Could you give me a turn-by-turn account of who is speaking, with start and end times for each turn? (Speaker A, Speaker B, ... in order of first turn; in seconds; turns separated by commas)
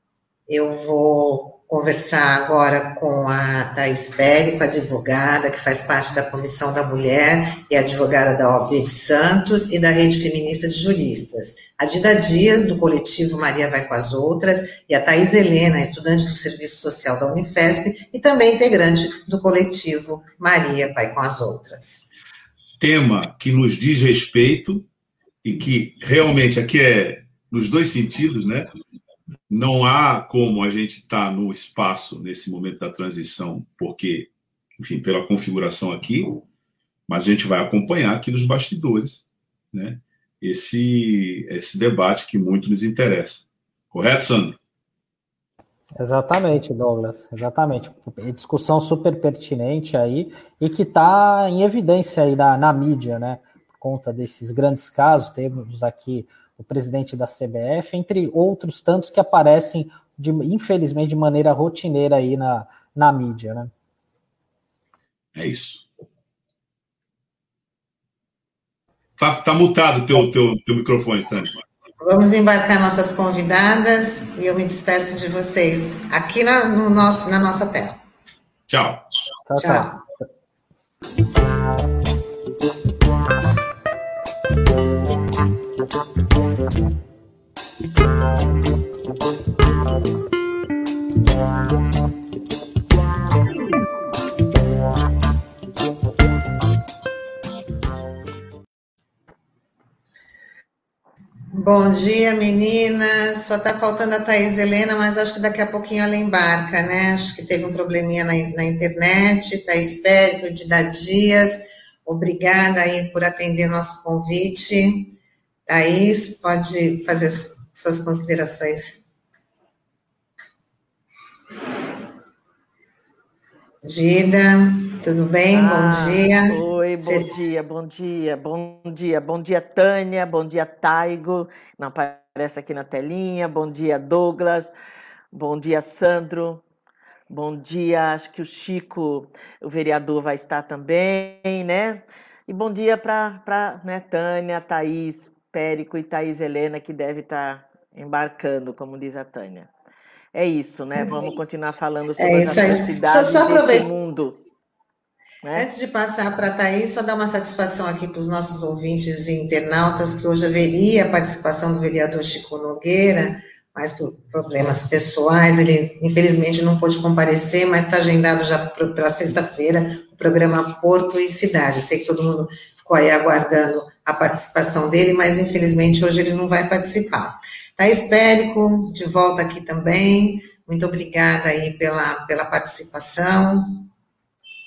Speaker A: 0.5-22.1, Speaker B: 22.8-24.9, Speaker B: 25.4-28.7, Speaker B: 29.5-36.4, Speaker B: 37.1-44.6, Speaker C: 46.0-63.7, Speaker B: 65.3-65.8, Speaker B: 69.2-71.5, Speaker A: 72.0-78.0, Speaker B: 78.7-79.0, Speaker C: 79.5-79.9, Speaker A: 79.6-80.0, Speaker A: 101.5-115.1, Speaker A: 115.7-119.0, Speaker A: 123.8-127.3, Speaker D: 125.5-134.7, Speaker D: 135.3-136.6, Speaker D: 137.3-149.7, Speaker D: 150.3-154.4, Speaker A: 152.2-153.9, Speaker D: 155.4-155.7, Speaker A: 155.6-183.9